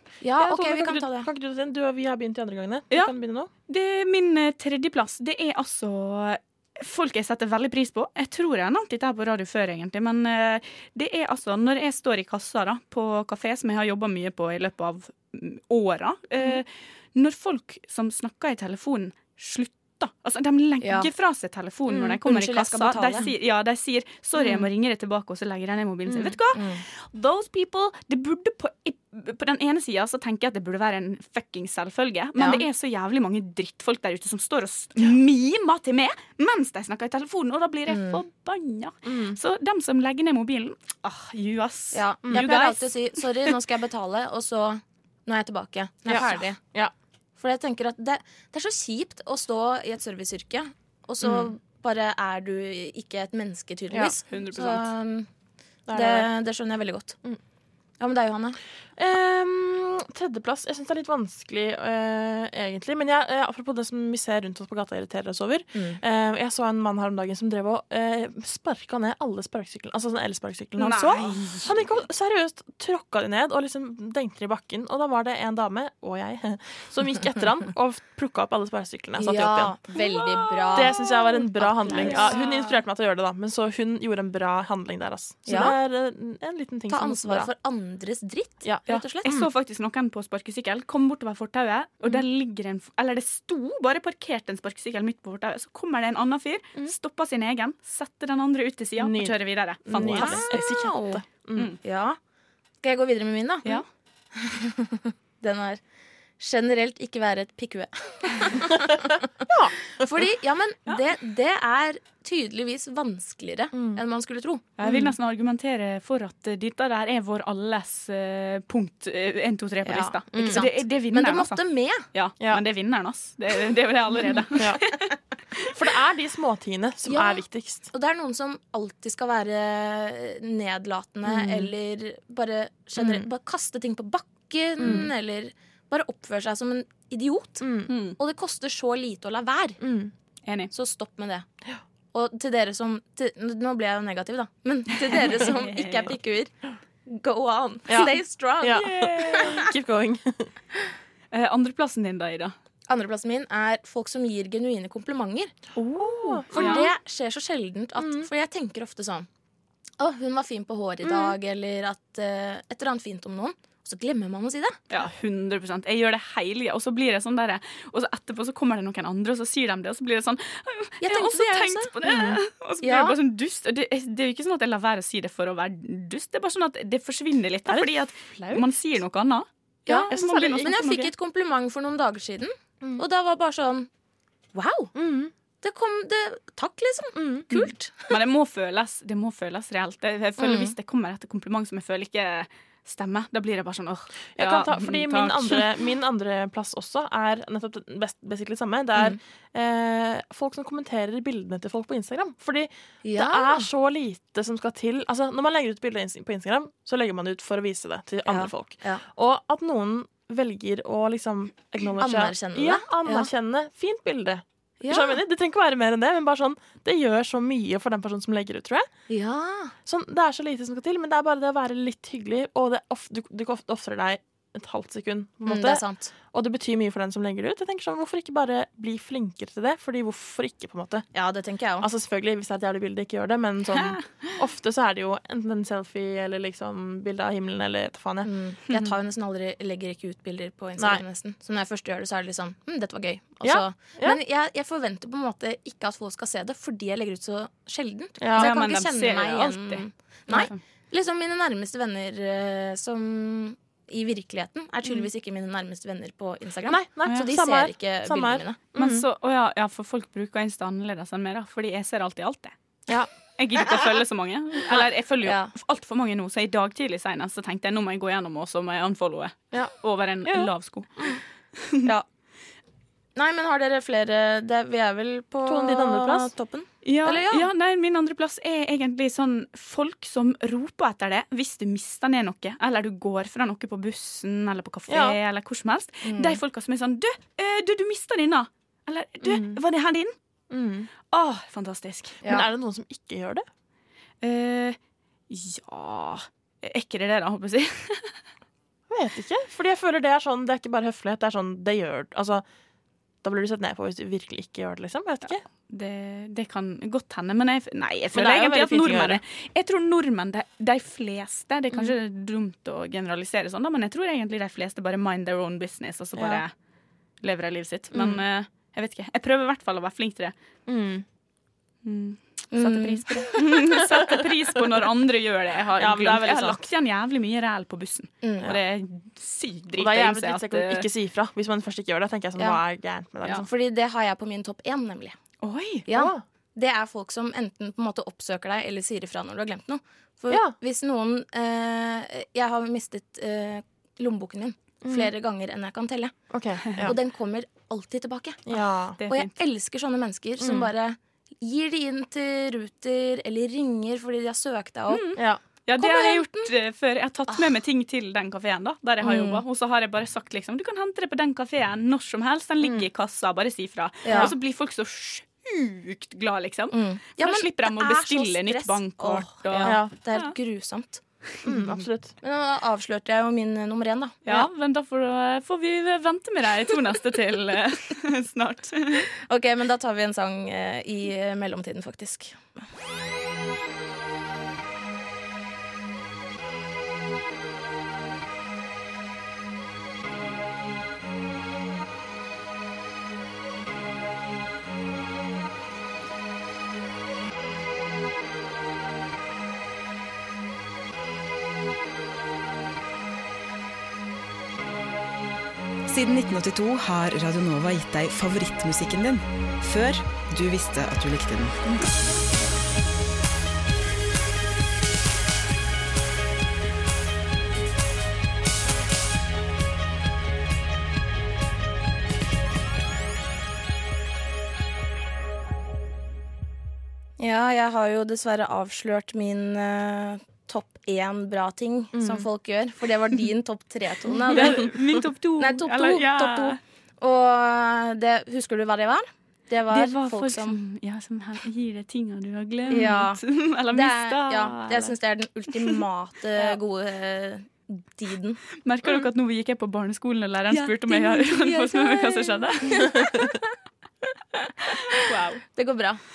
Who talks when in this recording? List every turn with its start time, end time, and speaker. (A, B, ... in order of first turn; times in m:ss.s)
0:00.2-0:01.3 A
0:00.4-0:03.5 B
0:03.7-0:43.5 C
0:20.8-0:21.1 A
0:21.9-0:22.2 B
0:22.2-0:23.3 A
0:24.4-0:24.6 B
0:26.1-0:26.4 B
0:26.5-0:26.8 A
0:32.4-0:32.6 A
0:37.9-0:38.2 A
0:39.0-0:39.4 B
0:41.9-0:46.6 A
0:46.0-0:46.9 B
0:47.4-0:55.3 A
0:51.2-0:51.5 B
0:53.9-0:54.2 B
0:54.3-0:54.9 C
0:55.9-0:56.3 B
0:55.9-0:57.2 A
0:58.0-0:58.6 A
0:59.0-1:19.8 B
1:05.7-1:06.0 A
1:10.8-1:11.8 C
1:19.2-1:22.4 A
1:19.9-1:21.1 C
1:20.7-1:27.5 B
1:22.0-1:22.6 C
1:25.4-1:25.8 A
1:26.9-1:29.4 A
1:28.6-1:29.5 B
1:28.9-1:40.6 C
1:39.0-1:41.7 B
1:40.0-1:41.2 A
1:41.8-1:42.2 A
1:42.8-1:43.8 A
1:44.3-1:45.8 A
1:46.4-1:49.2 A
1:48.7-1:50.3 B
1:50.0-1:54.6 A
1:53.7-1:54.0 B
1:54.8-2:05.1 C
1:54.8-1:55.1 B
1:59.8-2:02.0 A
2:00.3-2:00.6 B
2:04.5-2:04.9 B
2:05.6-2:07.9 B
2:07.0-2:19.8 A
2:11.3-2:11.6 B
2:13.0-2:13.2 B
2:14.8-2:15.1 B
2:17.6-2:17.9 B
2:17.9-2:18.2 C
2:19.8-2:20.1 B
2:20.4-2:20.7 C
2:20.7-2:21.4 A
2:22.1-2:26.5 A
2:25.0-2:26.1 C
2:27.0-2:29.5 A
2:27.9-2:30.5 B
2:28.7-2:29.6 C
2:31.3-2:32.5 C
2:32.9-2:35.5 A
2:35.8-2:36.9 C
2:36.0-2:36.9 B
2:36.5-2:39.3 A
2:38.0-2:38.3 B
2:40.0-2:44.8 A
2:41.0-2:41.4 B
2:44.9-3:01.1 C
2:51.0-2:51.9 A
2:52.0-2:52.4 B
2:52.8-2:53.2 A
2:57.6-2:58.7 B
2:59.9-3:03.9 A
3:00.1-3:00.7 B
3:04.5-3:04.9 A
3:04.9-3:05.3 B
3:05.6-3:08.1 A
3:07.1-3:07.6 B
3:08.1-3:15.7 C
3:10.4-3:10.7 A
3:14.4-3:38.9 B
3:23.0-3:23.7 A
3:28.2-3:29.0 A
3:32.0-3:33.3 A
3:34.8-3:35.2 A
3:39.1-3:39.7 A
3:39.8-3:51.0 B
3:45.4-3:46.1 A
3:51.1-3:51.9 A
3:51.8-3:58.3 B
3:58.2-4:18.6 A
4:00.8-4:01.0 B
4:03.4-4:04.2 B
4:08.2-4:08.5 B
4:08.4-4:10.6 C
4:16.6-4:19.0 B
4:18.8-4:22.5 C
4:23.4-4:31.0 C
4:25.2-4:25.5 A
4:30.2-4:31.2 B
4:33.2-4:37.5 A
4:35.4-4:36.3 B
4:36.8-4:50.1 C
4:44.9-4:45.2 B
4:46.0-4:46.4 A
4:49.2-4:49.6 B
4:50.5-4:50.9 B
4:51.1-4:52.2 C
4:52.2-4:53.4 B
4:54.2-4:54.8 C
4:55.3-4:58.2 C
4:58.9-5:02.4 B
5:03.2-5:05.4 B
5:05.7-5:16.5 C
5:08.1-5:09.2 B
5:16.2-5:16.4 B
5:17.2-5:20.3 C
5:20.7-5:21.0 B
5:21.8-5:30.9 C
5:22.5-5:23.4 A
5:23.9-5:24.2 B
5:25.8-5:26.6 B
5:28.2-5:28.5 A
5:29.8-5:33.5 B
5:33.3-5:35.2 A
5:35.4-5:35.8 C
5:35.9-5:46.1 A
5:35.9-5:36.2 B
5:40.3-5:40.5 B
5:44.8-5:45.1 B
5:46.3-5:47.0 B
5:46.8-5:55.1 A
5:48.5-5:49.0 B
5:49.0-5:49.3 C
5:50.4-5:50.7 B
5:54.9-6:10.3 C
5:55.2-5:55.4 B
5:55.7-5:56.5 A
5:59.0-5:59.4 A
6:02.6-6:02.9 B
6:04.0-6:04.3 A
6:06.7-6:11.0 A
6:09.6-6:09.9 B
6:11.4-6:12.1 B
6:12.2-6:14.4 A
6:14.2-6:19.1 C
6:19.2-6:22.4 A
6:45.9-6:51.6 D
7:07.2-7:14.7 A
7:11.9-7:12.3 B
7:14.3-7:16.6 C
7:15.4-7:20.6 A
7:19.7-7:24.9 C
7:22.7-7:28.4 A
7:28.6-7:33.0 C
7:30.5-7:33.5 A
7:34.3-7:36.0 A
7:34.7-7:35.4 C